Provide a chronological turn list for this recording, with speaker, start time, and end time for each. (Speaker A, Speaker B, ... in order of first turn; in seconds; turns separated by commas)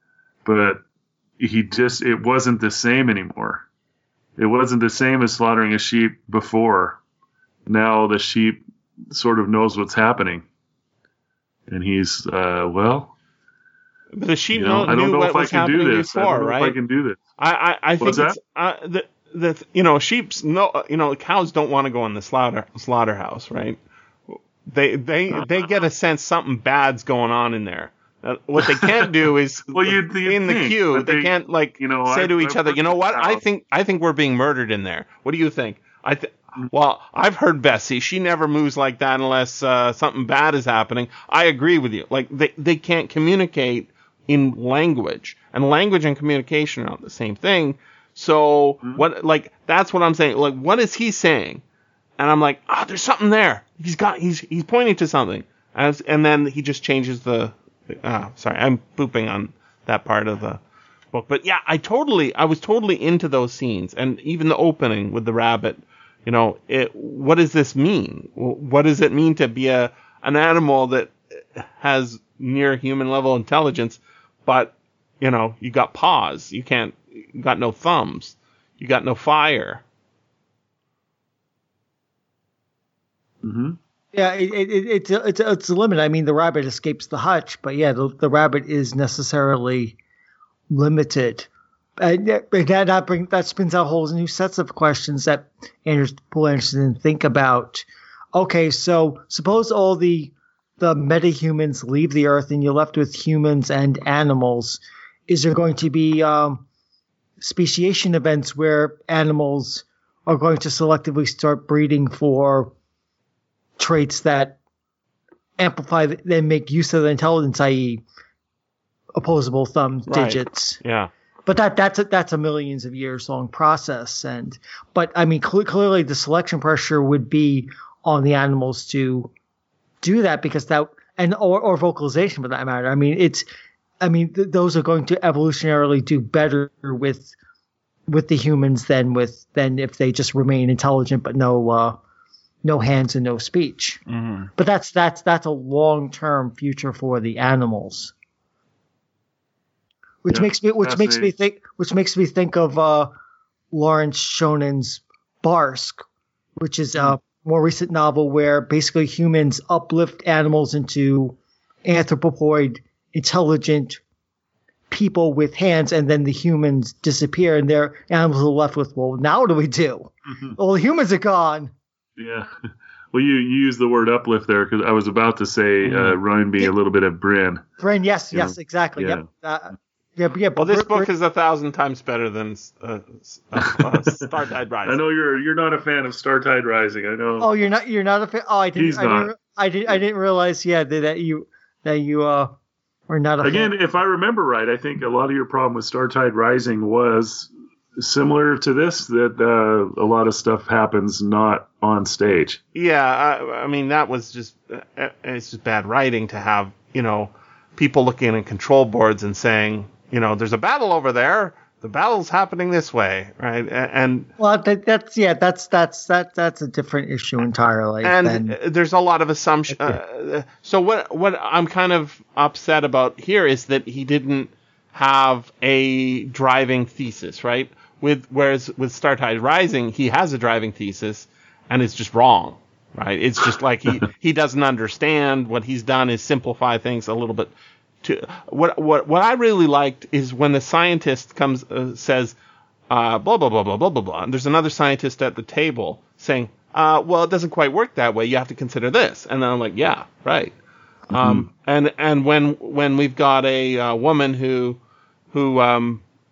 Speaker A: 0.4-0.8, Speaker A: 1.4-3.6, Speaker A: 4.4-7.0, Speaker A: 7.7-10.4, Speaker A: 11.7-13.1, Speaker B: 14.2-16.8, Speaker A: 14.5-17.2, Speaker B: 17.4-23.8, Speaker A: 18.0-18.4, Speaker B: 24.3-51.6, Speaker A: 29.7-33.4, Speaker B: 52.2-60.6, Speaker B: 61.1-79.8, Speaker A: 83.4-83.8, Speaker C: 84.1-90.0, Speaker C: 90.7-106.6, Speaker C: 107.4-112.7, Speaker C: 113.8-114.6, Speaker C: 115.6-118.0, Speaker C: 119.1-120.8, Speaker B: 120.1-121.1, Speaker C: 121.5-129.3, Speaker C: 130.0-133.4, Speaker C: 134.0-137.3, Speaker C: 138.1-142.0, Speaker C: 142.6-144.0, Speaker B: 144.1-144.5, Speaker C: 144.5-148.1, Speaker C: 150.2-153.1, Speaker A: 150.3-151.3, Speaker C: 153.7-156.0, Speaker C: 156.6-164.0, Speaker C: 164.9-171.7, Speaker A: 172.2-172.5, Speaker A: 173.1-177.7, Speaker B: 175.8-176.1, Speaker C: 177.8-181.1, Speaker A: 178.3-179.2, Speaker B: 180.6-185.0, Speaker A: 184.8-187.5, Speaker C: 187.4-192.5, Speaker A: 188.8-189.3, Speaker C: 193.1-193.7, Speaker A: 193.4-202.6, Speaker B: 202.7-214.3, Speaker C: 214.4-218.6, Speaker B: 218.0-237.5, Speaker B: 238.0-242.3, Speaker B: 242.9-250.5, Speaker A: 251.1-251.5, Speaker B: 251.1-254.8, Speaker B: 255.3-256.0